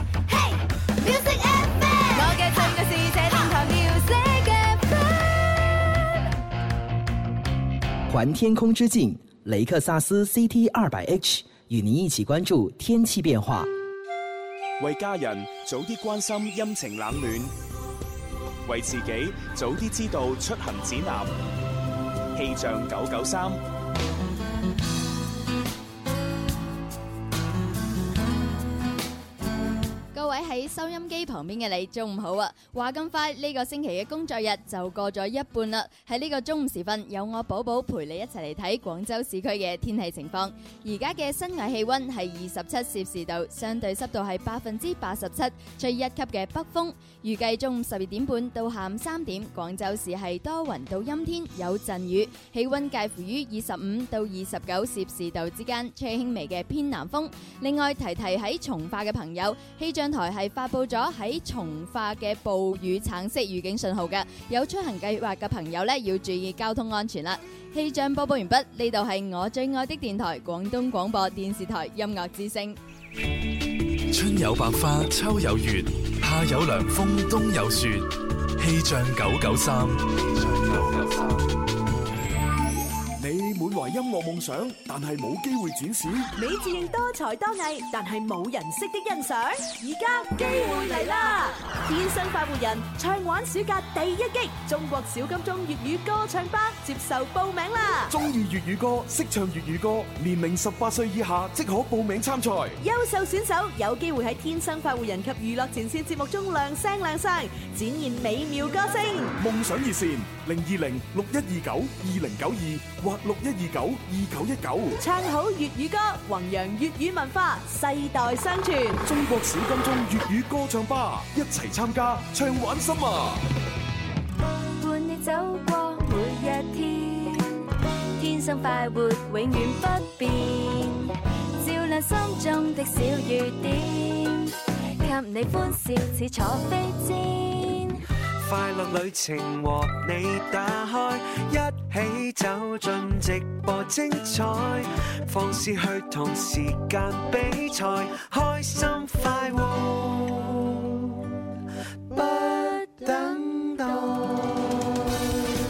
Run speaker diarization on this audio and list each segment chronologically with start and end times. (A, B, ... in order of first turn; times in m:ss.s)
0:02.1-0:04.9 A
0:08.1-0:13.7 B
0:14.8-0:17.5 C
0:18.6-0:21.3 C
0:22.3-0:23.6 C
0:30.1-1:12.8 D
1:14.1-1:21.4 E
1:23.2-1:26.3 F
1:26.4-1:38.1 G
1:38.1-1:42.8 F
1:42.8-1:49.3 G
1:49.4-1:55.0 F
1:55.0-1:59.0 G
1:59.0-2:03.4 F
2:04.8-2:07.6 A
2:08.2-2:18.0 A
2:18.4-2:31.0 H
2:32.1-2:34.6 H